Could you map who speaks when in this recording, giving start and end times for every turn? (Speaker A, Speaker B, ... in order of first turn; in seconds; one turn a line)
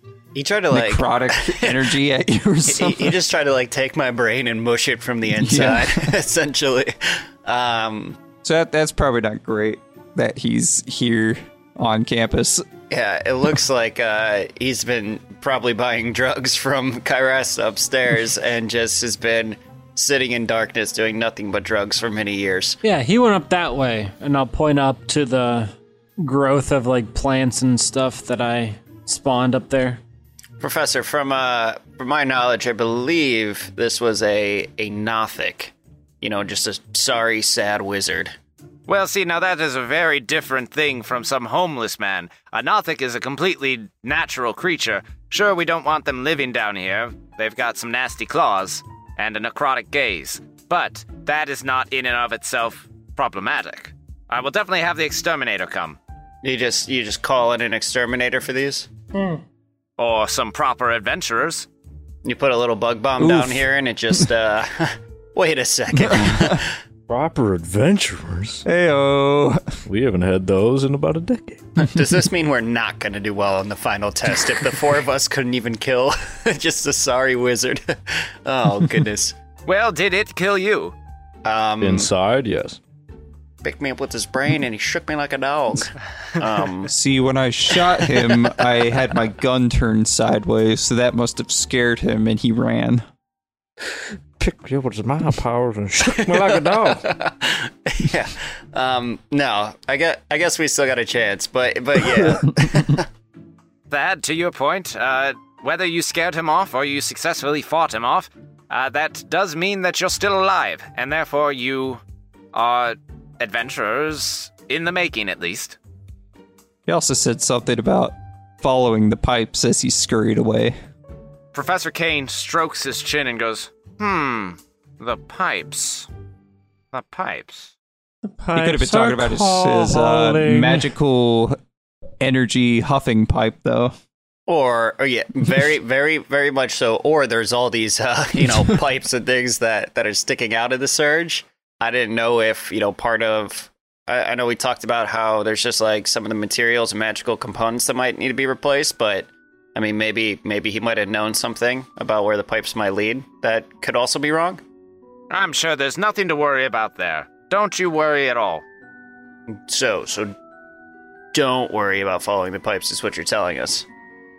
Speaker A: 0.3-1.8
Speaker B: 0.7-3.2
Speaker A: 2.7-8.2
Speaker B: 5.3-6.1
Speaker B: 8.4-12.6
Speaker A: 12.9-22.8
Speaker C: 22.8-30.0
Speaker A: 30.6-38.3
Speaker D: 38.9-56.0
Speaker A: 56.4-58.9
Speaker D: 60.0-61.7
Speaker A: 62.2-66.8
Speaker B: 63.2-63.6
Speaker B: 66.1-66.5
Speaker E: 67.1-68.6
Speaker B: 68.7-69.8
Speaker E: 69.8-71.7
Speaker A: 71.8-79.3
Speaker D: 79.7-80.9
Speaker A: 81.4-82.1
Speaker E: 81.8-82.8
Speaker A: 83.6-86.9
Speaker B: 86.9-93.0
Speaker A: 87.8-88.5
Speaker E: 94.4-97.1
Speaker A: 96.1-103.1
Speaker D: 103.9-112.0
Speaker D: 112.5-115.8
Speaker B: 116.9-120.7
Speaker D: 121.5-126.1
Speaker D: 126.9-127.7
Speaker C: 128.3-130.9
Speaker B: 128.5-131.6
Speaker B: 132.2-133.9
Speaker A: 134.5-154.6
Speaker D: 155.3-158.6
Speaker A: 159.5-160.3
Speaker A: 161.3-163.8